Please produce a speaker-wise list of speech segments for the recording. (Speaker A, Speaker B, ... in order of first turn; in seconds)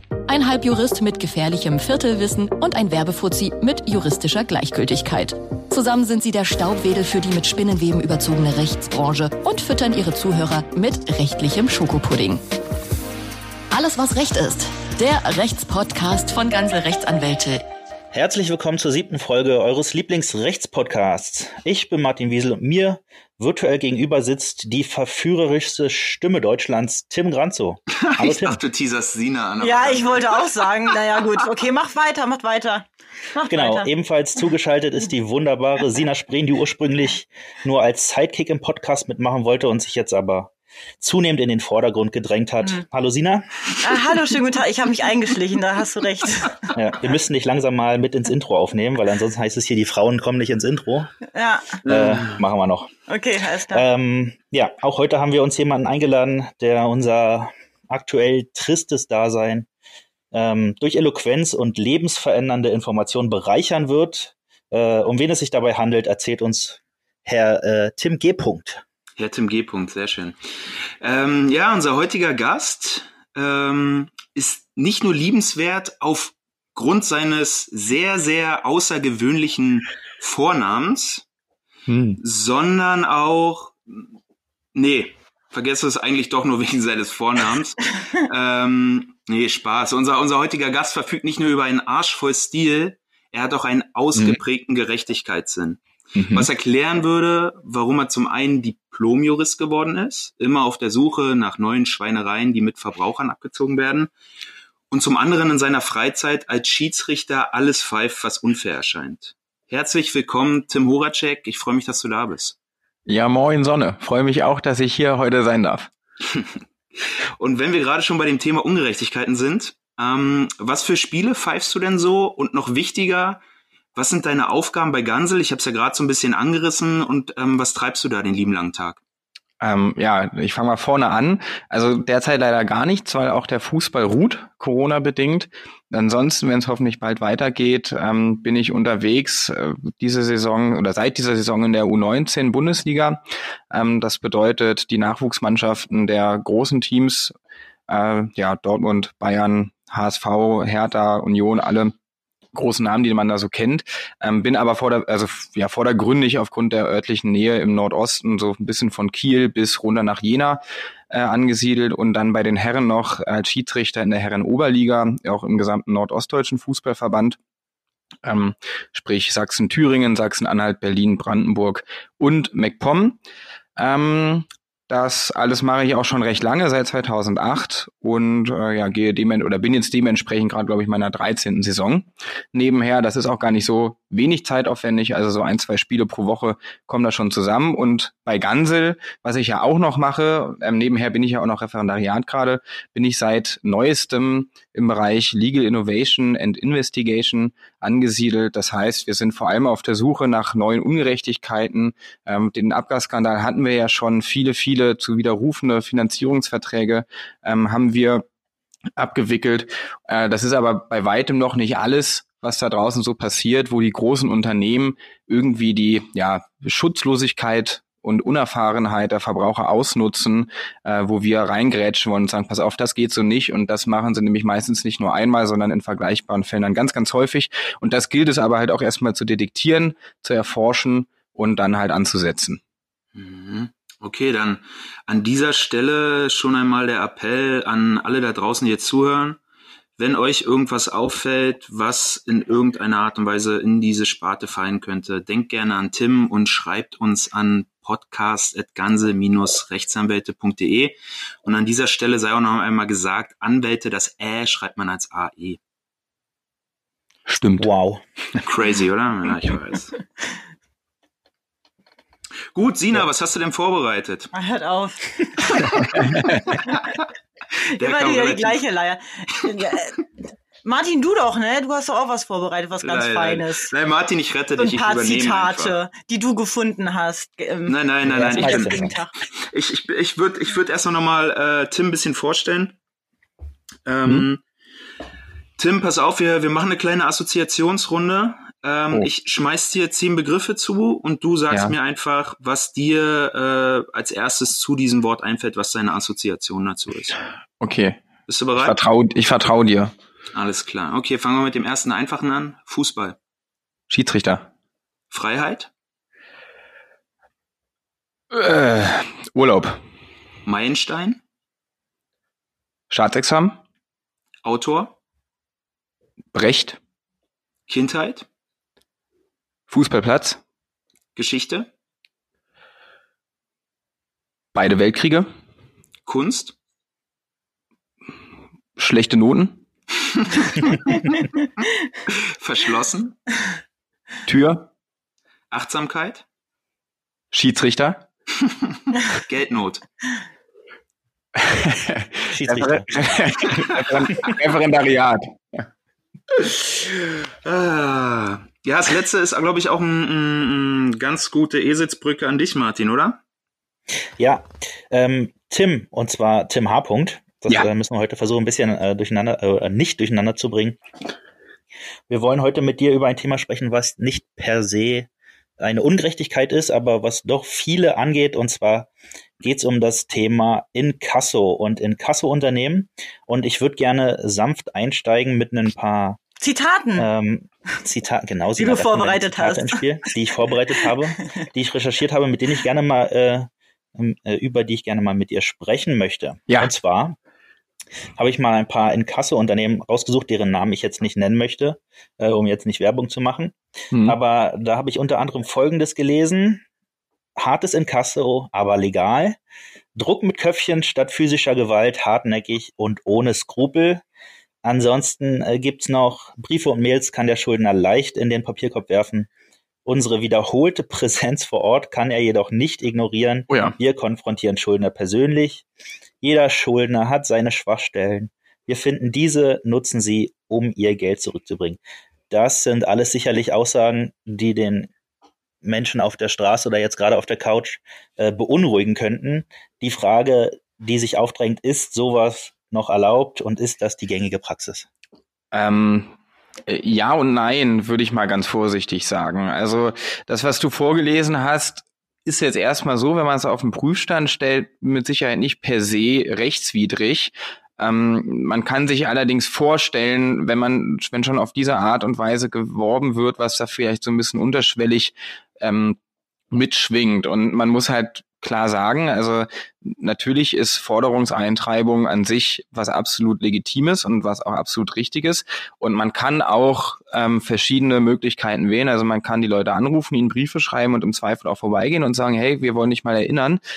Speaker A: 0.3-12.4, 13.7-17.6
Speaker B: 18.1-28.6, 33.5-43.7, 46.7-51.1, 51.8-52.9, 53.7-59.7, 60.3-68.8, 257.6-258.0, 278.0-278.9, 342.3-343.1, 354.2-360.8, 362.1-368.9, 369.4-376.2, 376.9-387.1, 388.1-396.6, 397.4-399.4, 399.9-404.0, 404.6-409.3, 409.9-415.6, 416.2-424.9, 425.6-434.9
Speaker C: 27.9-30.9, 51.9-52.4, 69.2-70.4, 71.0-81.2, 82.2-84.1, 84.7-104.1, 104.9-112.5, 117.0-123.4, 123.9-129.0, 233.1-239.4, 240.0-255.6, 258.4-259.9, 262.5-264.3, 265.6-266.6, 267.8-268.6, 272.8-275.7, 277.6-278.9, 279.4-282.8, 283.9-284.4, 285.6-297.2, 298.3-298.8, 300.3-303.2, 305.1-305.7, 310.4-311.2, 314.4-314.9, 317.7-318.2, 321.1-321.7, 326.1-326.5, 332.1-333.2, 335.5-336.2, 338.9-339.8, 343.8-344.3, 347.4-353.2
Speaker D: 29.6-33.9, 43.8-46.7, 51.3-51.8, 53.1-53.8, 264.3-265.8, 267.7-269.9, 270.6-273.7, 274.6-279.1, 376.4-377.1, 378.6-379.9
Speaker E: 81.9-82.2, 113.1-115.9, 129.6-143.2, 143.7-147.3, 147.9-151.9, 152.5-167.4, 168.2-173.2, 173.8-208.2, 209.0-232.6, 257.3-257.7, 297.6-298.0, 298.6-299.9, 303.9-304.5, 308.3-309.8, 312.9-313.6, 316.3-316.8, 319.7-320.4, 324.5-325.3, 328.8-329.6, 334.3-334.7, 337.3-338.0, 341.4-345.7, 413.5-413.7, 435.5-436.1, 436.7-456.0, 456.5-473.6